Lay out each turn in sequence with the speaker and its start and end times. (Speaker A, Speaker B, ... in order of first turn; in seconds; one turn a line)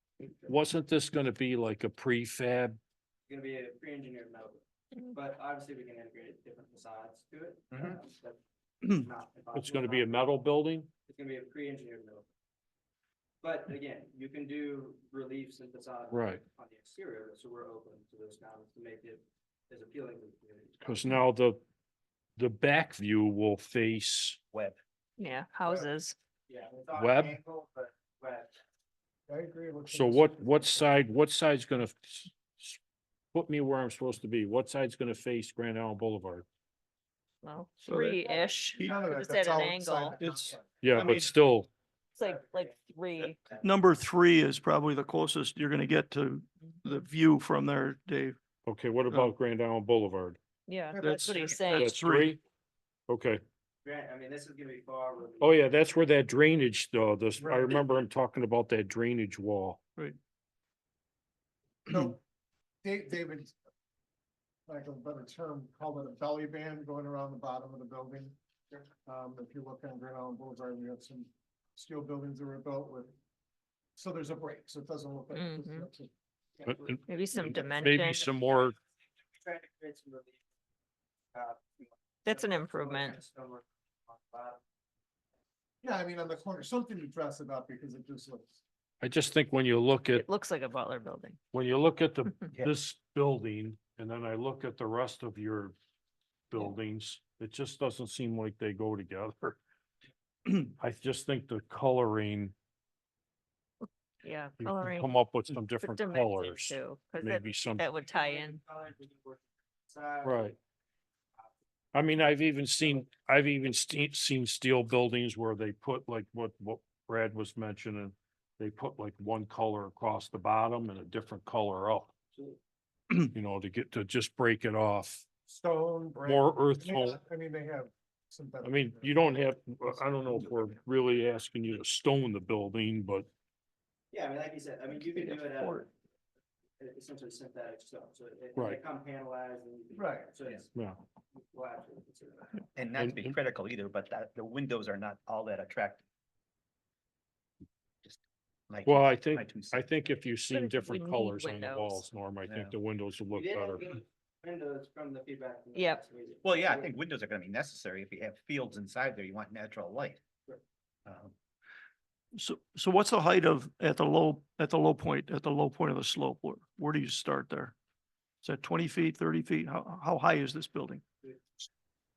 Speaker A: 0.5-2.8
Speaker B: 3.3-10.3
Speaker A: 9.5-10.9
Speaker B: 11.1-12.3
Speaker B: 13.4-21.0
Speaker A: 16.1-16.4
Speaker A: 20.8-21.6
Speaker A: 22.4-24.4
Speaker C: 24.5-24.8
Speaker D: 25.2-26.1
Speaker B: 26.5-28.6
Speaker A: 26.9-27.4
Speaker E: 29.3-30.9
Speaker A: 29.9-32.8
Speaker A: 33.3-36.5
Speaker D: 37.4-40.2
Speaker F: 37.8-38.3
Speaker B: 38.4-39.0
Speaker E: 38.8-40.7
Speaker F: 40.1-41.3
Speaker A: 40.8-41.7
Speaker D: 42.2-43.4
Speaker F: 43.6-48.4
Speaker A: 48.6-50.4
Speaker D: 50.7-52.0
Speaker E: 50.9-51.6
Speaker F: 51.0-52.4
Speaker A: 51.7-52.4
Speaker A: 53.1-53.4
Speaker B: 53.8-55.7
Speaker A: 55.4-59.8
Speaker E: 57.4-57.8
Speaker E: 61.9-62.2
Speaker E: 62.8-63.5
Speaker E: 64.7-68.4
Speaker E: 69.1-73.2
Speaker E: 74.0-76.1
Speaker D: 75.3-75.9
Speaker B: 76.6-77.7
Speaker A: 76.7-78.8
Speaker D: 77.1-78.3
Speaker B: 79.4-80.4
Speaker B: 81.3-84.6
Speaker D: 82.2-83.2
Speaker E: 85.8-88.6
Speaker A: 89.0-90.2
Speaker D: 90.1-91.4
Speaker A: 91.5-95.8
Speaker A: 96.5-99.6
Speaker A: 100.6-102.5
Speaker D: 104.2-105.1
Speaker A: 104.6-107.9
Speaker D: 105.8-108.6
Speaker B: 108.0-110.5
Speaker A: 110.2-110.5
Speaker A: 111.9-122.2
Speaker B: 112.8-113.1
Speaker A: 123.2-125.3
Speaker E: 125.5-129.2
Speaker A: 126.2-127.2
Speaker A: 128.6-133.3
Speaker B: 134.1-135.9
Speaker F: 135.1-135.8
Speaker B: 136.8-140.7
Speaker E: 139.9-140.3
Speaker A: 140.8-141.0
Speaker B: 141.3-142.7
Speaker C: 142.8-146.0
Speaker A: 143.0-143.3
Speaker C: 148.0-149.9
Speaker A: 148.8-153.9
Speaker D: 150.5-152.0
Speaker C: 152.5-152.8
Speaker B: 153.3-156.9
Speaker D: 155.7-156.0
Speaker C: 156.4-160.2
Speaker C: 161.1-161.3
Speaker F: 162.3-167.8
Speaker F: 168.4-171.0